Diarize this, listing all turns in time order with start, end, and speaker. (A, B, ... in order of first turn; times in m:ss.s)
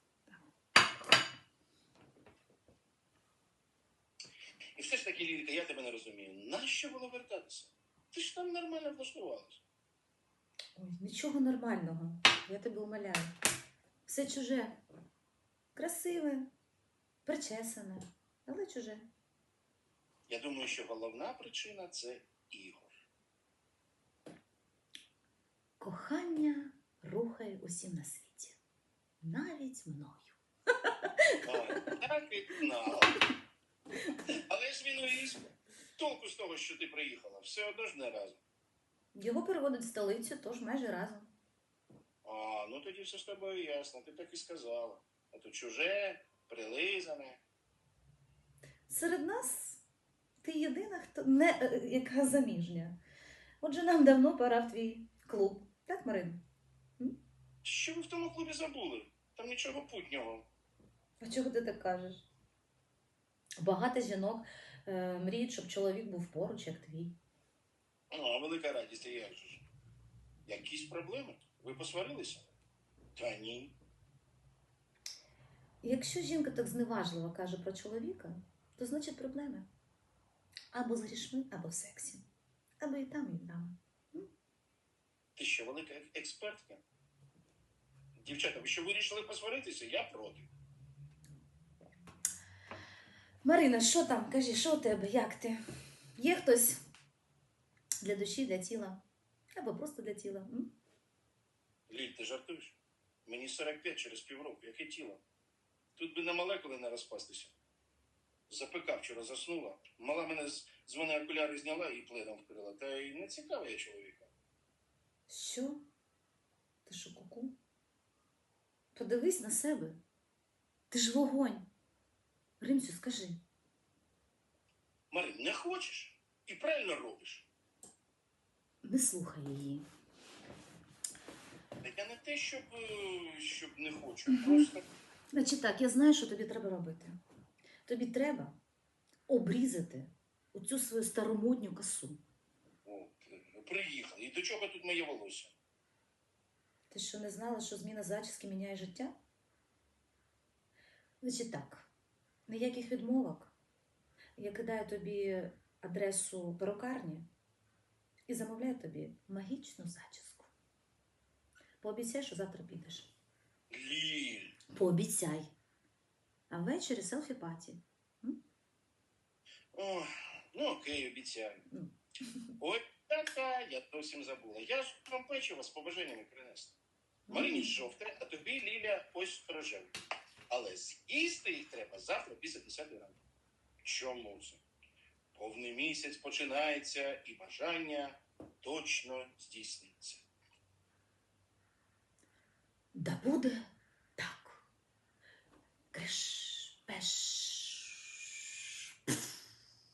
0:04.8-0:09.6 A
0:10.8-0:13.3 B
0:14.0-0:14.8 B
0:15.7-0:16.5 B
0:17.2-0:19.1 B
0:20.3-0:23.0 A
0:25.8-0:28.6 B
0:29.2-0:30.4 B
0:31.4-0:33.2 A
0:34.3-0:35.4 A
0:36.0-0:38.4 A
0:39.1-0:41.3 B
0:42.2-0:47.4 A
0:48.9-0:49.8 B
0:50.4-0:53.0 B
0:53.6-0:56.4 B
0:57.6-1:00.5 A
1:01.2-1:02.2 B
1:03.6-1:07.2 B
1:08.1-1:09.6 A
1:10.4-1:12.5 A
1:13.2-1:13.7 A
1:15.8-1:19.7 B
1:20.7-1:22.2 B
1:22.8-1:24.3 B
1:25.4-1:26.8 A
1:28.2-1:30.5 A
1:33.4-1:35.6 B
1:36.2-1:36.8 B
1:38.0-1:39.0 B
1:39.6-1:40.7 B
1:41.9-1:45.2 A
1:46.0-1:47.5 A
1:48.5-1:54.3 A
1:55.3-1:55.8 B
1:56.8-1:57.6 B
1:58.9-2:00.0 B
2:00.9-2:01.7 B
2:02.6-2:03.4 B
2:05.1-2:07.5 A
2:08.8-2:09.9 B
2:11.8-2:14.9 A
2:14.3-2:14.7 B
2:15.3-2:17.2 B
2:17.8-2:18.6 B
2:19.3-2:22.2 B
2:22.8-2:25.5 A
2:26.9-2:29.2 B
2:31.2-2:31.9 B
2:32.5-2:33.5 B
2:34.4-2:37.3 B
2:38.3-2:40.5 B
2:41.8-2:43.1 B
2:43.7-2:44.6 A
2:44.7-2:45.5 B
2:46.5-2:48.4 B
2:49.7-2:51.7 A
2:52.6-2:56.8 A
2:57.3-2:57.8 B
2:57.3-2:59.9 A
3:00.5-3:03.2 A
3:03.8-3:04.6 A
3:05.3-3:10.2 A
3:12.9-3:14.6 B
3:15.9-3:18.0 B